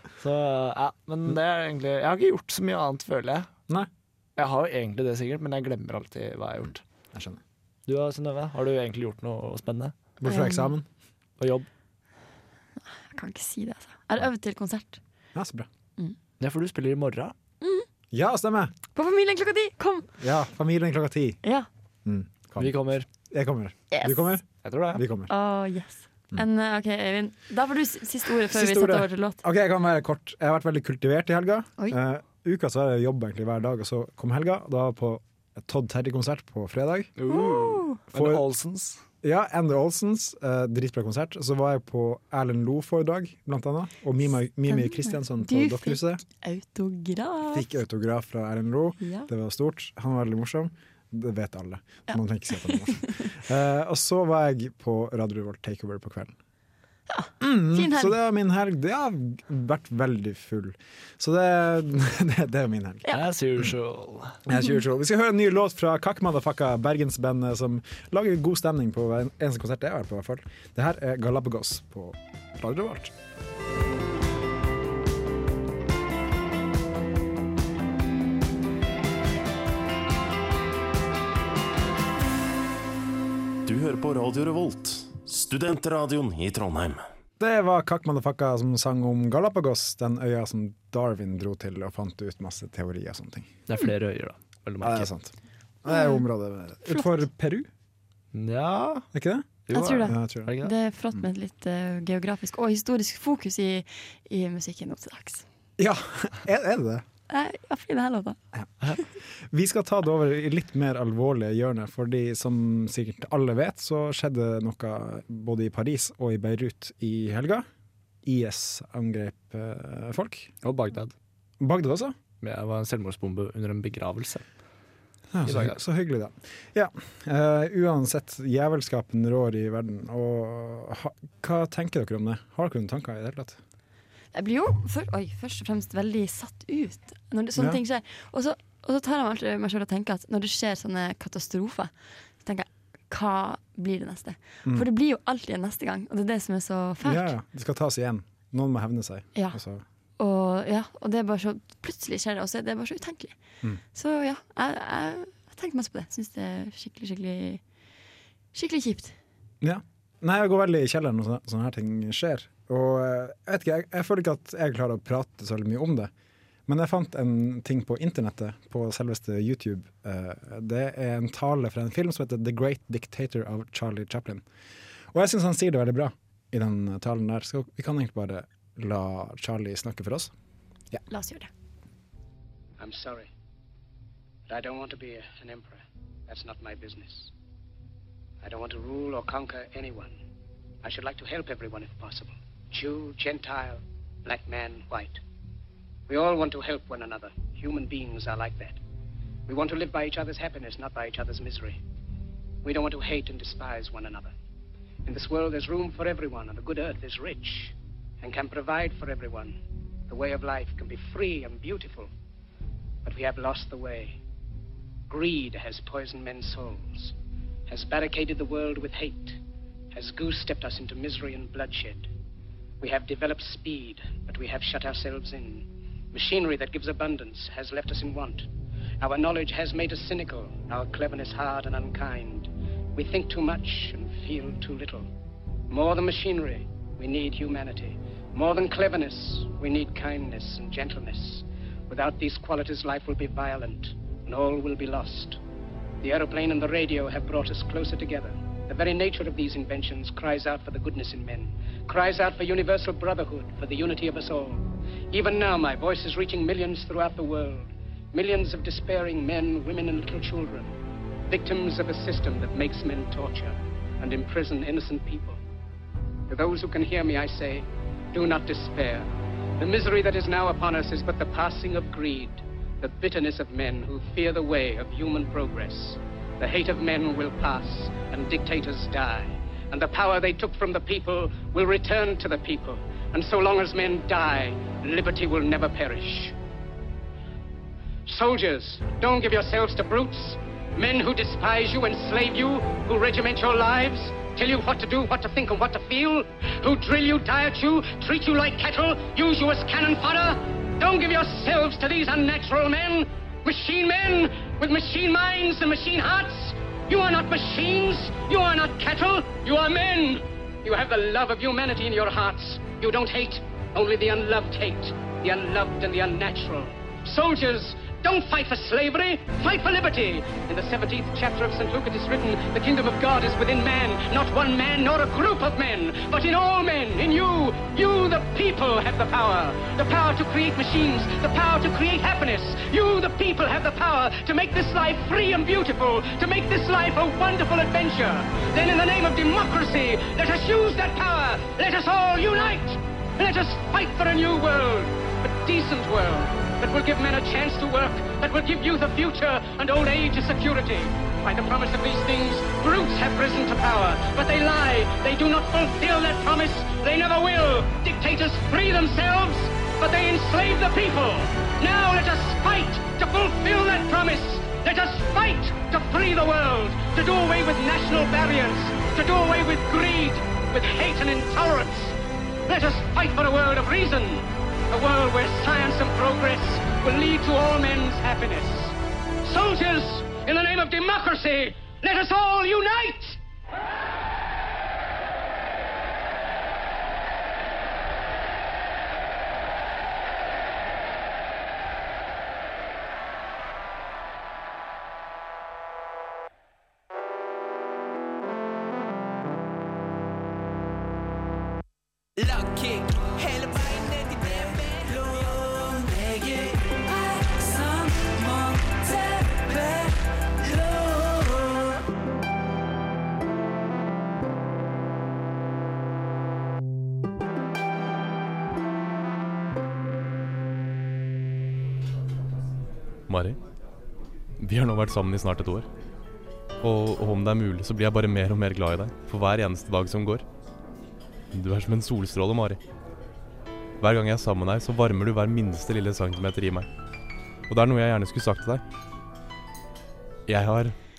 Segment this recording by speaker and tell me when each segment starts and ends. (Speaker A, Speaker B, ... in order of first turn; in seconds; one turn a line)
Speaker A: 0.2-3.5
Speaker A: 4.4-6.8
Speaker B: 7.1-7.4
Speaker A: 7.9-9.9
Speaker B: 10.2-10.9
Speaker C: 10.2-10.8
Speaker A: 11.4-11.7
Speaker C: 12.9-15.0
Speaker B: 15.3-15.7
Speaker A: 16.4-17.4
Speaker C: 17.6-17.9
Speaker B: 18.1-18.7
Speaker C: 18.9-20.1
Speaker B: 20.2-21.4
Speaker B: 22.1-22.7
Speaker A: 22.6-23.1
Speaker B: 23.3-25.3
Speaker C: 23.9-24.4
Speaker A: 24.6-25.0
Speaker C: 25.3-29.4
Speaker B: 28.5-37.1
Speaker A: 37.2-39.0
Speaker C: 37.3-38.0
Speaker B: 38.1-38.4
Speaker B: 39.2-46.2
Speaker C: 44.7-47.7
Speaker B: 47.5-56.4
Speaker C: 49.0-49.3
Speaker C: 52.1-53.2
Speaker C: 57.1-58.2
Speaker B: 57.4-63.1
Speaker A: 63.1-64.4
Speaker B: 64.5-73.1
Speaker D: 83.7-87.0
Speaker B: 87.4-93.5
Speaker A: 93.7-95.1
Speaker B: 94.8-95.3
Speaker B: 95.8-97.7
Speaker C: 95.9-96.2
Speaker C: 96.9-97.2
Speaker A: 98.3-99.1
Speaker B: 99.1-100.5
Speaker A: 99.7-100.7
Speaker C: 99.7-105.5
Speaker B: 105.8-107.0
Speaker C: 107.3-108.4
Speaker B: 109.5-117.7
Speaker B: 118.2-120.5
Speaker A: 120.6-121.1
Speaker B: 121.6-122.2
Speaker A: 122.4-124.4
Speaker B: 125.3-133.6
Speaker A: 125.5-125.8
Speaker C: 134.3-147.3
Speaker B: 137.6-137.8
Speaker B: 147.0-149.8
Speaker C: 150.2-153.3
Speaker C: 153.9-157.6
Speaker C: 158.5-159.2
Speaker B: 159.6-166.1
Speaker B: 166.7-174.4
Speaker B: 175.1-180.3
Speaker C: 181.1-181.5
Speaker E: 182.8-183.3
Speaker E: 184.5-187.3
Speaker E: 188.4-190.2
Speaker E: 190.8-195.2
Speaker E: 196.1-198.8
Speaker E: 199.5-201.8
Speaker E: 202.6-204.3
Speaker E: 205.1-209.6
Speaker E: 210.1-212.1
Speaker E: 213.1-214.2
Speaker E: 215.1-217.1
Speaker E: 217.7-219.4
Speaker E: 219.9-222.1
Speaker E: 222.8-228.5
Speaker E: 229.0-235.1
Speaker E: 235.7-245.4
Speaker E: 246.0-260.7
Speaker E: 261.3-265.4
Speaker E: 266.3-269.1
Speaker E: 269.6-286.4
Speaker E: 288.1-372.0
Speaker E: 372.5-383.2
Speaker F: 402.2-411.8
Speaker G: 423.1-423.4
Speaker G: 424.4-425.7
Speaker G: 426.6-430.2
Speaker G: 431.3-432.6
Speaker G: 433.8-436.7
Speaker G: 437.5-438.6
Speaker G: 440.3-440.8